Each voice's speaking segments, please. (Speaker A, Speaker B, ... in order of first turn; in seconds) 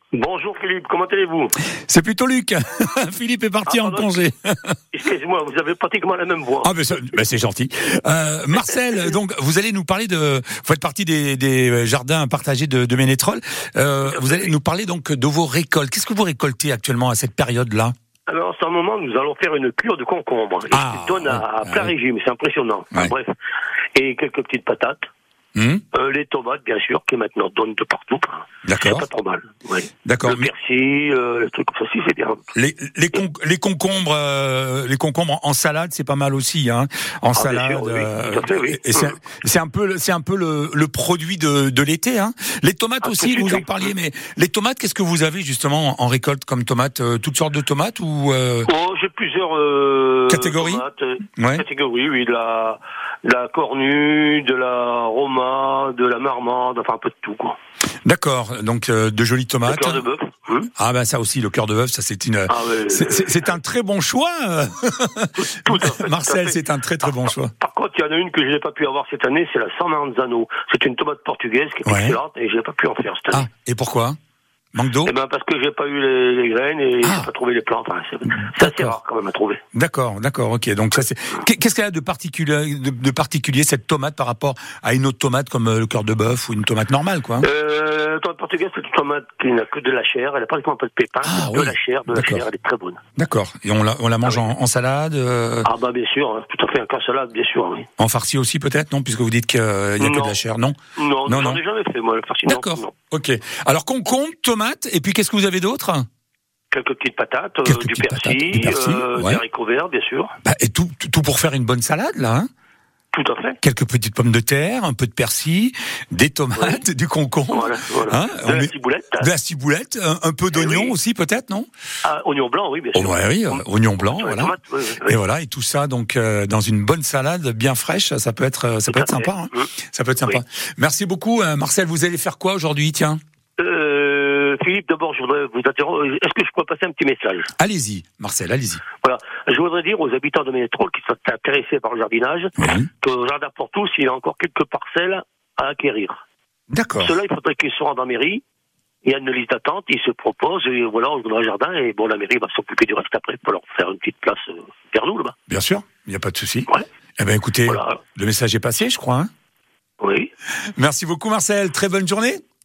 Speaker A: 0.1-1.6, 3.6-4.1, 4.9-7.0, 14.0-14.5, 18.3-23.3, 23.9-25.1, 25.9-32.4, 37.3-39.2, 43.0-43.7, 48.6-57.5, 59.6-60.7, 62.5-63.5, 65.3-73.5, 75.0-79.6, 87.4-93.0, 95.6-97.9, 100.0-100.4, 101.0-102.9, 106.7-110.3, 113.1-113.6, 116.5-116.8, 117.5-119.3, 120.5-121.0, 122.0-125.2, 128.9-129.7, 133.6-137.5, 139.0-146.2, 147.0-148.4, 149.0-155.3, 157.7-158.0, 160.0-160.3
Speaker B: 1.9-4.8, 6.6-17.9, 20.7-21.9, 25.6-25.8, 28.6-29.1, 30.0-30.5, 32.5-48.7, 50.3-50.8, 51.4-51.6, 58.0-60.0, 60.8-67.5, 71.8-72.2, 73.3-74.2, 74.7-75.1, 77.0-77.3, 78.3-79.0, 79.7-87.5, 91.2-92.4, 93.2-95.7, 98.0-101.6, 102.5-106.0, 107.6-109.4, 110.4-112.5, 113.6-121.7, 122.9-133.2, 137.6-138.8, 142.6-142.9, 146.7-147.1, 155.5-159.3, 160.8-162.4